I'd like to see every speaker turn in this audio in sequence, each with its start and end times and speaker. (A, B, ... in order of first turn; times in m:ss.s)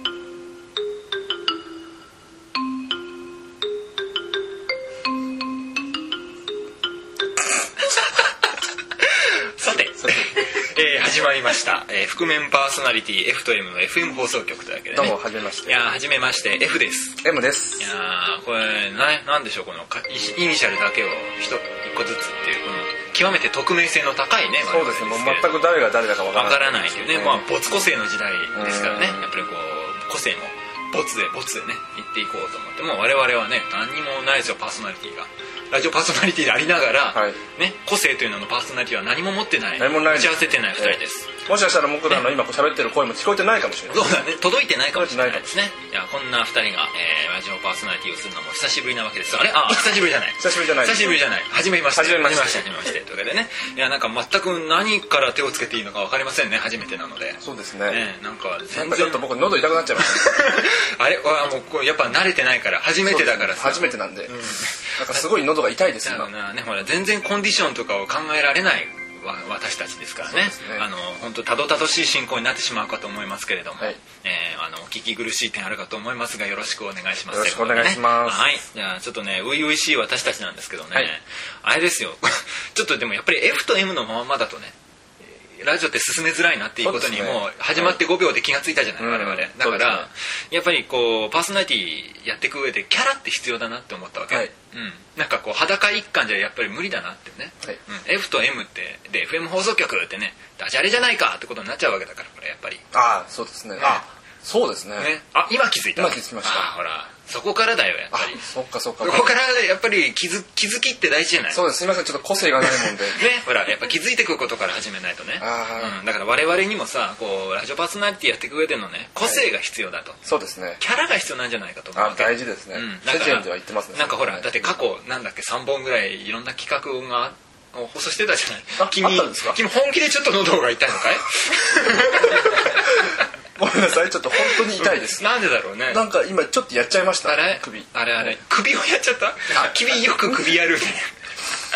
0:09.0-0:17.2 A
0:10.0-0:10.3 B
0:14.9-0:15.9 B
0:17.2-0:17.9 B
0:17.8-0:25.7 A
0:24.7-0:27.5 B
0:26.3-0:41.3 A
0:28.5-0:29.3 B
0:37.1-0:37.4 B
0:39.8-0:44.2 B
0:43.9-0:59.3 A
0:44.9-0:45.5 B
0:50.4-0:51.2 B
0:51.9-0:52.6 B
0:57.4-0:58.0 B
0:58.7-1:00.4 B
1:00.0-1:05.2 A
1:03.0-1:04.3 B
1:05.0-1:06.3 B
1:06.0-1:24.7 A
1:10.2-1:10.8 B
1:17.3-1:18.5 B
1:25.3-1:42.8 A
1:26.8-1:28.0 B
1:29.0-1:30.1 B
1:42.9-1:45.1 B
1:45.0-1:48.4 A
1:46.0-1:46.7 B
1:48.1-1:49.3 B
1:49.0-1:51.6 A
1:51.5-1:53.2 B
1:53.1-2:00.2 A
1:55.4-1:56.0 B
2:00.2-2:00.8 B
2:00.8-2:13.1 A
2:01.9-2:04.8 B
2:08.8-2:09.6 B
2:13.6-2:15.2 B
2:14.4-2:16.0 A
2:15.9-2:18.3 B
2:17.2-2:21.1 A